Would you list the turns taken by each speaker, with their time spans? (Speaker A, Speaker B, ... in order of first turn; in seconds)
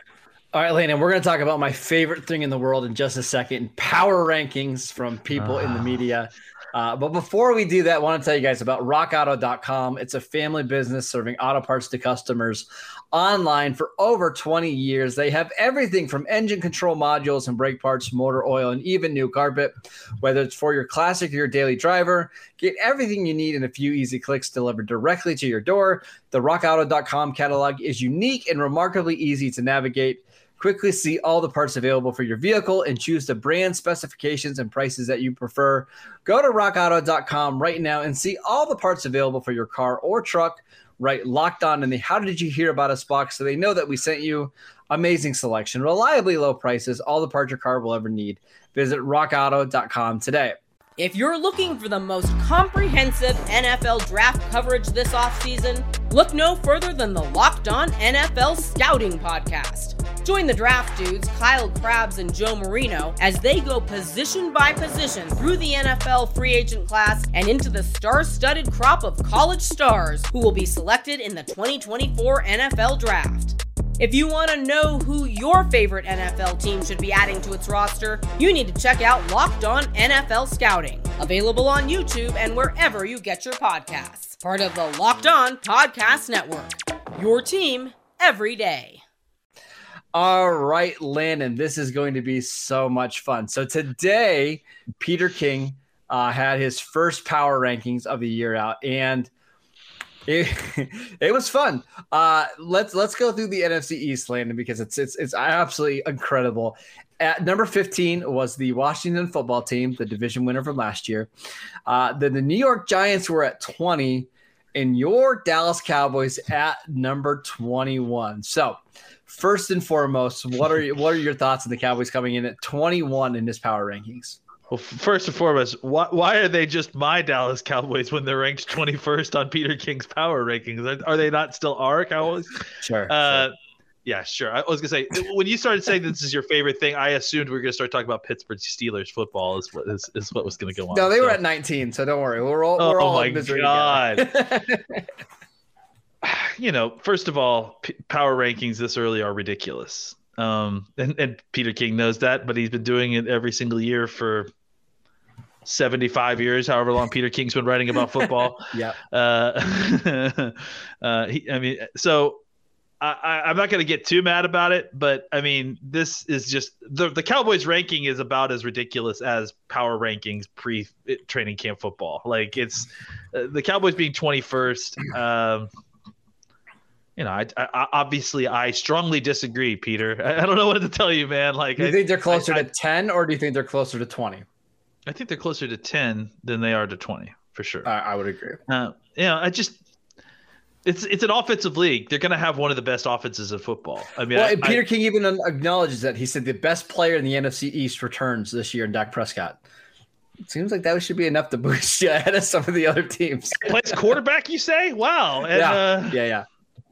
Speaker A: 0.5-50.6, 90.1-99.3, 100.2-111.3, 111.9-124.4, 132.8-133.4, 140.9-145.1, 158.7-159.0, 181.8-184.4, 187.8-188.6, 194.3-199.6, 200.5-204.0, 205.5-206.5
Speaker B: 5.4-5.8, 124.7-133.5, 134.1-141.4, 142.8-144.3, 146.2-154.5, 155.7-162.4, 163.0-175.7, 177.2-182.7, 185.1-187.9, 188.7-189.8, 190.8-194.8, 203.6-206.2
Speaker C: 51.0-89.0